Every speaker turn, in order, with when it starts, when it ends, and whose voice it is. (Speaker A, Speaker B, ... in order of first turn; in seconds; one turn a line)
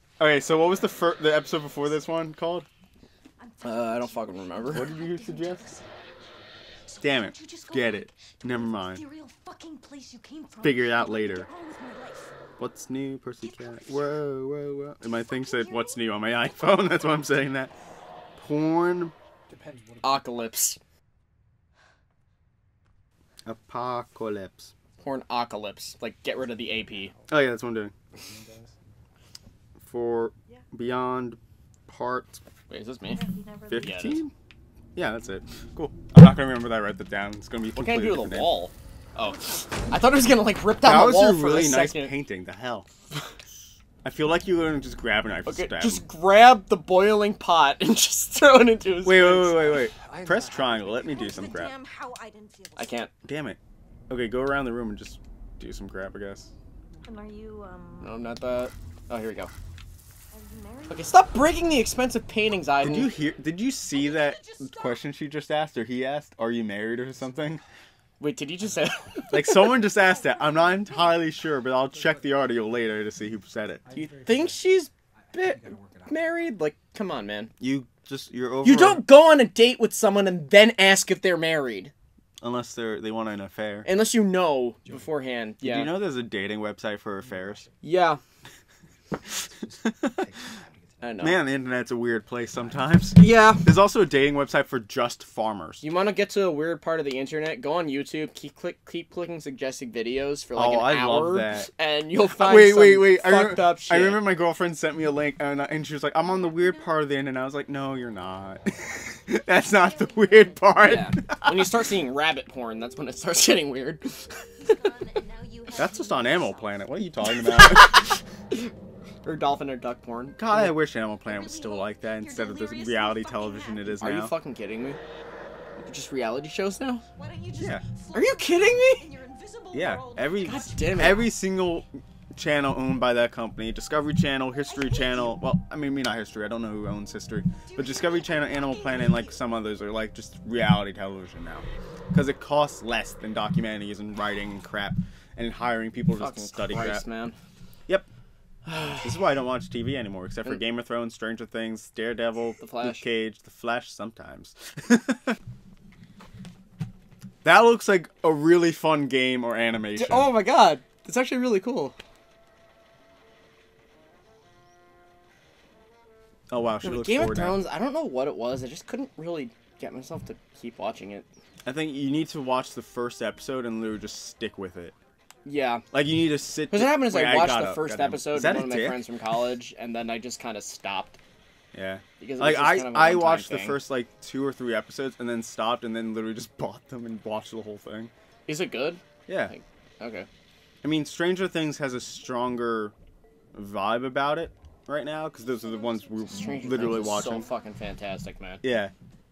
Speaker A: 0.2-2.7
Speaker B: 3.4-5.8
Speaker C: 3.6-4.9
Speaker A: 4.7-5.7
Speaker B: 6.8-12.4
Speaker A: 7.0-9.0
Speaker A: 10.6-11.5
Speaker A: 12.6-17.7
Speaker B: 13.4-14.2
Speaker B: 15.0-16.0
Speaker A: 18.4-19.1
Speaker D: 19.5-20.2
Speaker C: 20.0-20.8
Speaker A: 23.4-24.7
Speaker C: 25.0-27.1
Speaker D: 26.6-27.4
Speaker A: 27.3-27.9
Speaker D: 28.1-28.8
Speaker A: 29.8-32.4
Speaker C: 32.7-33.2
Speaker B: 33.1-34.1
Speaker A: 33.7-34.3
Speaker C: 33.8-34.2
Speaker A: 35.0-38.5
Speaker C: 37.8-42.2
Speaker B: 39.5-39.9
Speaker A: 40.8-42.9
Speaker A: 44.0-46.0
Speaker C: 45.5-49.8
Speaker A: 49.0-51.7
Speaker D: 49.6-51.2
Speaker B: 51.1-53.0
Speaker C: 52.8-53.1
Speaker A: 53.2-53.6
Speaker A: 54.1-56.5
Speaker B: 57.0-58.2
Speaker C: 58.0-59.5
Speaker B: 60.3-61.8
Speaker C: 60.9-63.1
Speaker A: 62.8-67.6
Speaker B: 63.9-65.0
Speaker D: 67.1-67.6
Speaker C: 68.2-69.7
Speaker A: 69.3-73.8
Speaker B: 69.9-71.2
Speaker D: 71.9-72.4
Speaker D: 73.7-74.6
Speaker C: 73.9-77.5
Speaker D: 75.3-76.4
Speaker A: 77.6-79.0
Speaker C: 78.6-81.9
Speaker A: 82.4-83.9
Speaker C: 83.8-85.9
Speaker D: 84.8-85.1
Speaker A: 85.6-87.7
Speaker D: 87.2-87.7
Speaker C: 87.8-88.2
Speaker D: 89.3-91.3
Speaker C: 91.0-91.4
Speaker A: 91.2-95.8
Speaker D: 92.4-93.1
Speaker C: 93.2-93.7
Speaker C: 95.8-104.2
Speaker A: 100.5-101.7
Speaker A: 102.3-111.7
Speaker B: 106.2-107.0
Speaker B: 109.5-111.3
Speaker C: 110.8-114.3
Speaker B: 114.5-116.9
Speaker A: 115.8-118.1
Speaker C: 117.4-118.7
Speaker C: 119.2-120.8
Speaker A: 120.4-124.3
Speaker B: 121.2-124.0
Speaker C: 124.0-125.0
Speaker C: 125.8-127.0
Speaker B: 127.1-131.3
Speaker A: 127.5-127.8
Speaker C: 128.1-129.1
Speaker A: 129.7-147.0
Speaker C: 130.4-131.3
Speaker B: 134.6-135.3
Speaker B: 137.6-139.4
Speaker C: 146.1-147.3
Speaker C: 148.7-149.1
Speaker A: 149.0-155.3
Speaker C: 152.6-153.0
Speaker A: 157.4-160.3
Speaker C: 159.9-161.9
Speaker A: 166.5-167.6
Speaker C: 166.8-171.3
Speaker A: 171.6-174.9
Speaker C: 175.4-175.8
Speaker A: 175.9-179.0
Speaker C: 176.7-181.2
Speaker A: 181.7-188.1
Speaker C: 182.2-183.8
Speaker C: 188.5-190.3
Speaker A: 189.3-189.5
Speaker A: 190.8-192.9
Speaker A: 193.5-197.5
Speaker B: 195.5-197.6
Speaker C: 196.3-198.6
Speaker A: 198.6-198.9